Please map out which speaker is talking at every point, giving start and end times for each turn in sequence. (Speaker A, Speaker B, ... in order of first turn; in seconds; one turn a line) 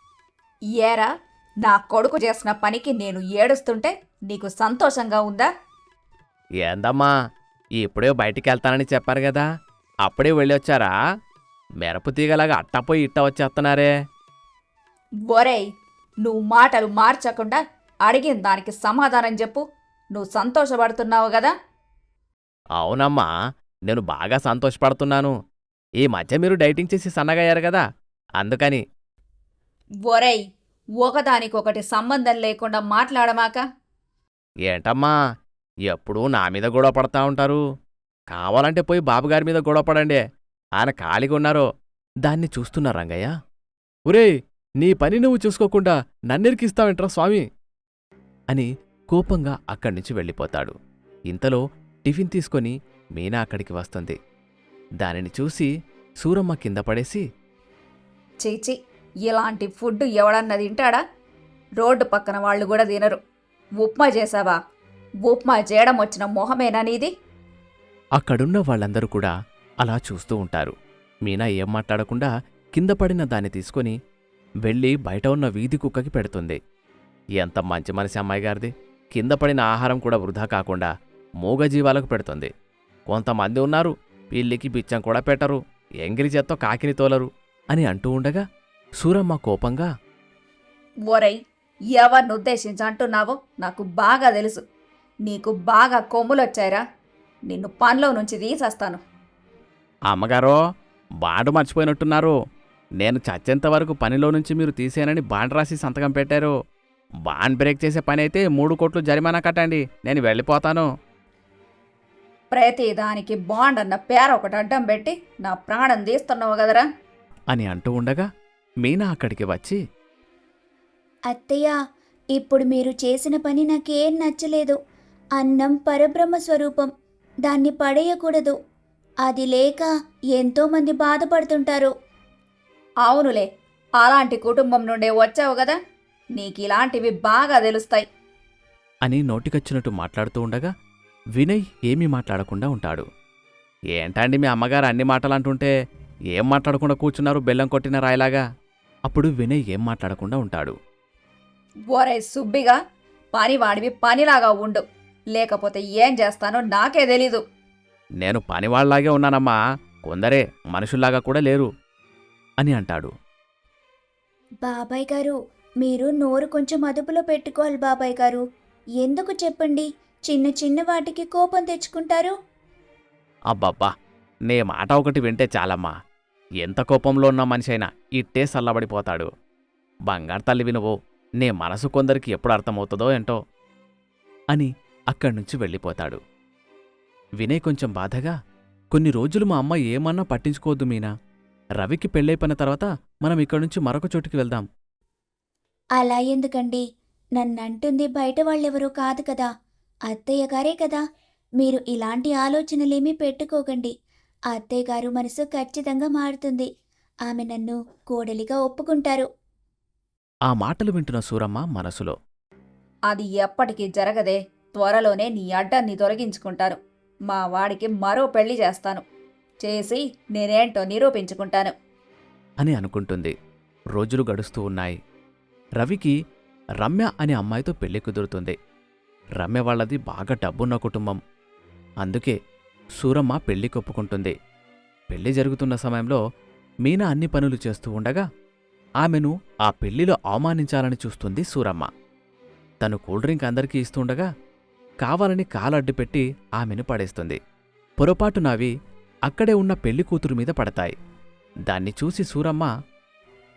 Speaker A: 0.8-1.1
Speaker A: 1.6-5.5
Speaker B: 6.6-7.1
Speaker B: 7.8-9.4
Speaker B: 10.0-10.9
Speaker B: 11.8-13.9
Speaker A: 15.3-15.6
Speaker A: 16.2-19.6
Speaker A: 20.1-21.5
Speaker B: 22.8-23.3
Speaker B: 23.9-25.3
Speaker B: 26.0-27.9
Speaker B: 28.4-28.8
Speaker A: 30.1-30.4
Speaker A: 31.0-33.6
Speaker B: 34.6-35.1
Speaker B: 35.9-37.6
Speaker B: 38.3-40.2
Speaker B: 40.8-41.7
Speaker B: 42.2-43.3
Speaker B: 44.1-47.5
Speaker B: 48.5-50.7
Speaker B: 51.3-54.2
Speaker B: 55.0-57.2
Speaker A: 58.4-61.0
Speaker A: 61.8-63.2
Speaker A: 63.8-64.6
Speaker A: 65.2-67.1
Speaker B: 68.2-70.7
Speaker B: 71.2-74.0
Speaker B: 74.6-76.6
Speaker B: 77.4-80.9
Speaker B: 81.4-82.5
Speaker B: 83.1-88.4
Speaker B: 89.0-89.9
Speaker A: 91.1-91.4
Speaker A: 91.9-94.6
Speaker A: 95.2-96.8
Speaker A: 97.5-99.0
Speaker B: 100.1-100.6
Speaker B: 101.2-102.3
Speaker B: 103.0-106.5
Speaker B: 107.3-110.9
Speaker A: 112.5-116.9
Speaker B: 117.5-118.3
Speaker B: 118.8-119.8
Speaker C: 121.3-121.7
Speaker C: 122.3-124.8
Speaker C: 125.4-126.9
Speaker C: 127.5-128.6
Speaker C: 129.2-131.9
Speaker A: 133.0-133.5
Speaker A: 134.0-135.8
Speaker A: 136.3-138.1
Speaker B: 139.1-140.7
Speaker B: 141.4-143.1
Speaker B: 143.9-145.7
Speaker B: 146.3-148.4
Speaker B: 149.1-150.8
Speaker A: 151.9-152.8
Speaker A: 153.3-154.8
Speaker A: 155.3-157.4
Speaker B: 158.2-161.7
Speaker B: 162.6-163.1
Speaker C: 164.6-168.4
Speaker C: 169.0-172.3
Speaker B: 173.5-173.9
Speaker B: 174.5-175.9
Speaker B: 176.6-179.3
Speaker B: 180.1-183.4
Speaker B: 184.5-186.2
Speaker B: 187.4-188.3
Speaker B: 188.9-191.1
Speaker B: 191.8-194.7
Speaker C: 196.0-196.8
Speaker C: 197.4-199.5
Speaker C: 200.1-201.0
Speaker C: 201.6-203.9
Speaker C: 204.5-206.7
Speaker C: 207.3-209.3
Speaker B: 210.5-212.2
Speaker A: 213.1-219.0
Speaker A: 219.6-221.7
Speaker B: 222.6-223.3
Speaker B: 223.9-225.0
Speaker B: 225.8-226.2
Speaker B: 226.8-228.6
Speaker B: 229.4-231.2
Speaker B: 232.0-232.4
Speaker B: 233.0-234.3
Speaker B: 235.1-236.2
Speaker B: 236.8-238.2
Speaker B: 239.0-241.9
Speaker B: 242.8-244.3
Speaker B: 245.0-247.4
Speaker B: 248.0-248.7
Speaker B: 249.3-250.9
Speaker B: 251.7-252.7